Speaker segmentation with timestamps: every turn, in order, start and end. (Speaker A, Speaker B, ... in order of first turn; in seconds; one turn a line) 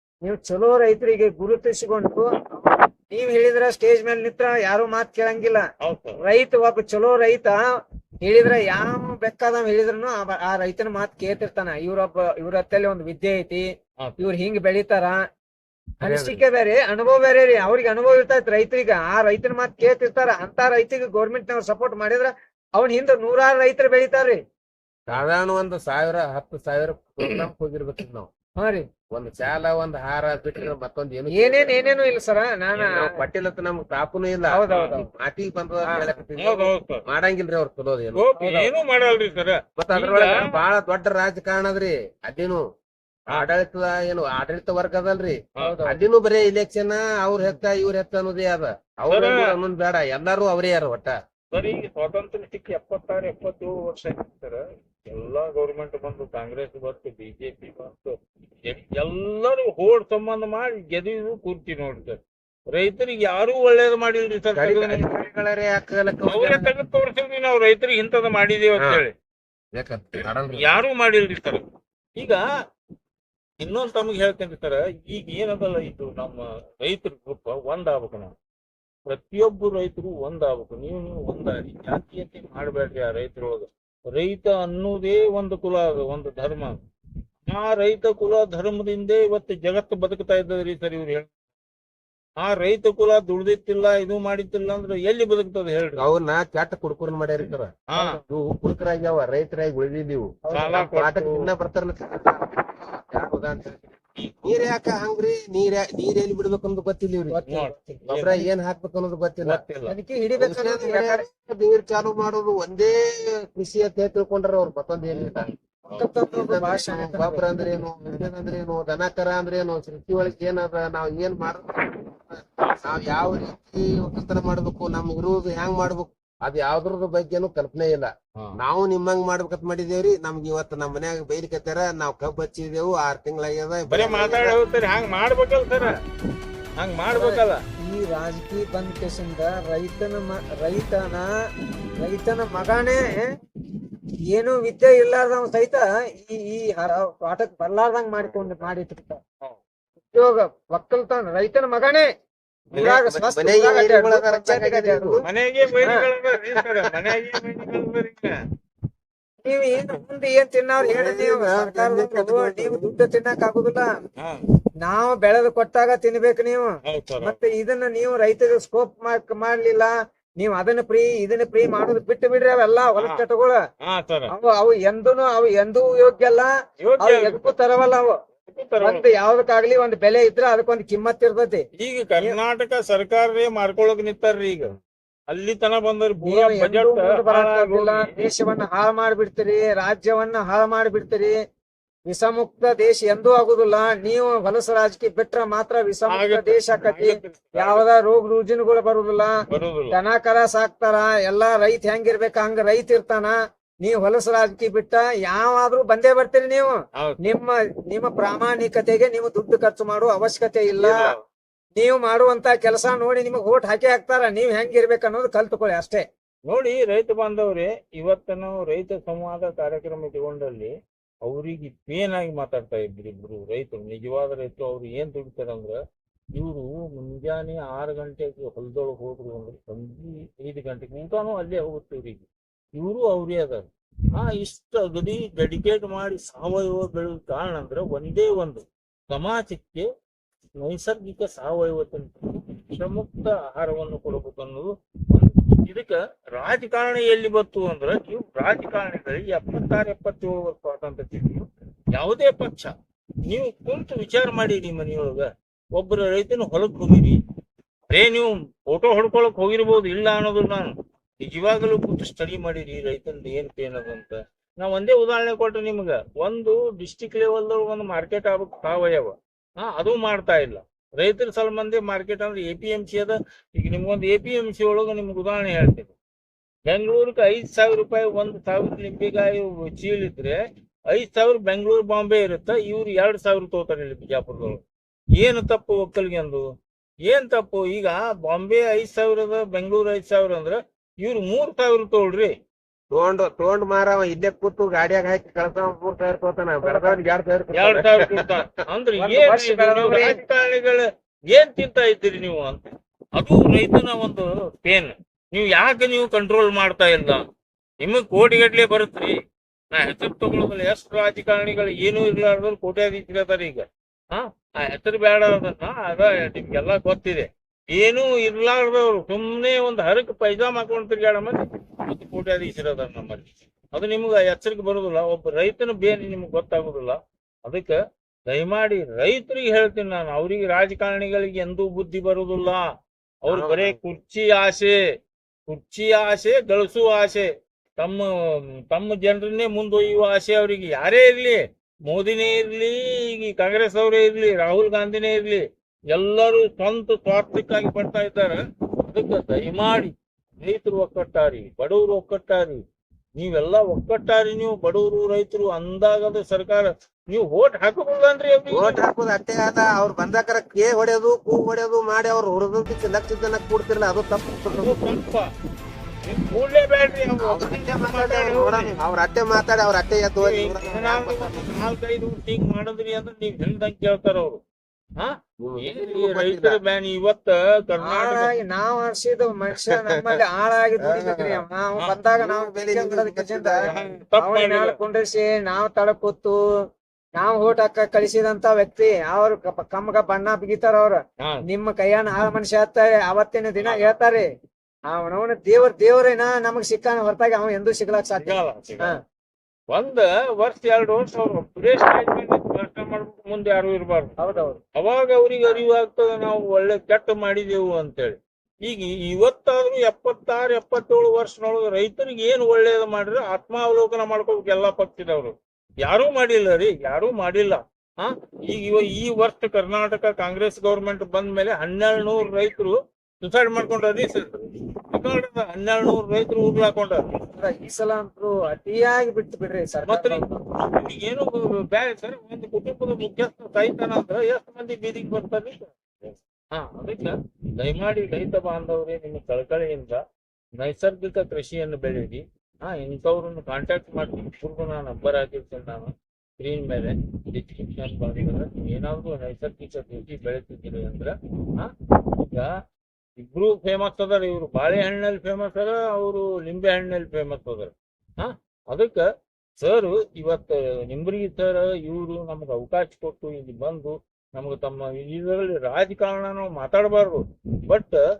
Speaker A: 0.2-5.7
Speaker B: 5.8-6.2
Speaker A: 6.2-7.6
Speaker A: 8.2-13.7
Speaker A: 14.2-15.2
Speaker A: 16.0-24.4
Speaker C: 16.0-16.4
Speaker C: 25.1-28.3
Speaker A: 28.6-28.9
Speaker C: 29.1-32.1
Speaker A: 31.3-33.2
Speaker C: 32.8-38.2
Speaker A: 34.5-35.1
Speaker A: 35.8-36.1
Speaker B: 36.4-37.0
Speaker B: 38.1-40.6
Speaker A: 38.4-38.7
Speaker C: 39.8-42.6
Speaker C: 43.3-51.2
Speaker A: 45.6-46.0
Speaker B: 49.1-49.5
Speaker B: 51.5-58.1
Speaker B: 58.6-65.1
Speaker C: 64.5-66.7
Speaker B: 66.3-69.1
Speaker C: 68.8-69.0
Speaker C: 69.7-70.8
Speaker B: 70.5-71.6
Speaker B: 72.2-72.4
Speaker B: 73.6-78.3
Speaker B: 79.1-86.8
Speaker B: 87.5-91.3
Speaker B: 92.4-96.0
Speaker C: 96.0-97.8
Speaker B: 97.9-98.2
Speaker A: 98.0-98.2
Speaker C: 98.3-107.4
Speaker A: 100.4-100.8
Speaker B: 100.5-101.5
Speaker A: 107.3-108.4
Speaker B: 107.5-108.4
Speaker C: 108.1-109.6
Speaker B: 109.4-110.0
Speaker A: 109.9-111.3
Speaker C: 110.4-115.5
Speaker B: 115.2-116.1
Speaker A: 115.9-117.4
Speaker C: 116.3-134.6
Speaker B: 133.9-136.0
Speaker B: 136.8-137.6
Speaker A: 137.1-141.3
Speaker A: 142.0-143.3
Speaker A: 144.3-149.2
Speaker C: 148.2-148.7
Speaker A: 150.1-152.1
Speaker C: 152.7-155.3
Speaker A: 152.7-155.2
Speaker B: 155.2-158.3
Speaker A: 155.8-156.1
Speaker C: 156.6-157.1
Speaker A: 159.4-163.9
Speaker C: 160.8-162.9
Speaker A: 164.8-173.6
Speaker B: 166.9-167.4
Speaker B: 173.0-173.2
Speaker B: 173.8-174.3
Speaker A: 174.3-178.1
Speaker B: 176.8-177.6
Speaker B: 178.5-179.1
Speaker A: 178.8-181.6
Speaker B: 181.8-184.7
Speaker B: 185.3-188.2
Speaker A: 186.2-191.4
Speaker A: 192.1-199.3
Speaker B: 196.1-197.9
Speaker B: 199.5-200.0
Speaker A: 199.9-211.1
Speaker B: 207.0-207.3
Speaker B: 210.8-211.2
Speaker A: 211.7-216.1
Speaker B: 216.5-220.7
Speaker B: 221.2-225.8
Speaker B: 226.3-239.9
Speaker B: 240.6-252.8
Speaker B: 253.3-257.2
Speaker B: 257.9-275.9
Speaker B: 276.7-284.6
Speaker B: 285.2-286.4
Speaker B: 287.1-292.3
Speaker C: 292.9-298.3
Speaker A: 296.6-297.0
Speaker B: 297.6-307.3
Speaker A: 299.0-300.2
Speaker B: 307.8-309.2
Speaker B: 309.7-327.8
Speaker B: 328.3-332.7
Speaker B: 333.2-334.8
Speaker C: 333.3-333.8
Speaker B: 335.5-352.6
Speaker B: 353.2-358.8
Speaker C: 358.5-364.8
Speaker B: 364.6-365.3
Speaker B: 366.1-368.8
Speaker C: 367.2-371.6
Speaker B: 370.2-374.4
Speaker B: 375.0-378.4
Speaker C: 375.4-376.6
Speaker A: 377.8-386.4
Speaker C: 379.7-380.2
Speaker C: 380.8-381.4
Speaker C: 382.2-383.9
Speaker B: 383.7-384.8
Speaker A: 387.1-394.3
Speaker B: 393.6-393.9
Speaker A: 394.9-399.0
Speaker B: 398.2-399.0
Speaker B: 399.7-404.2
Speaker A: 404.2-404.6
Speaker B: 404.8-427.1
Speaker A: 427.3-430.4
Speaker B: 429.9-440.0
Speaker B: 440.6-452.5
Speaker B: 453.2-459.1
Speaker B: 459.6-468.0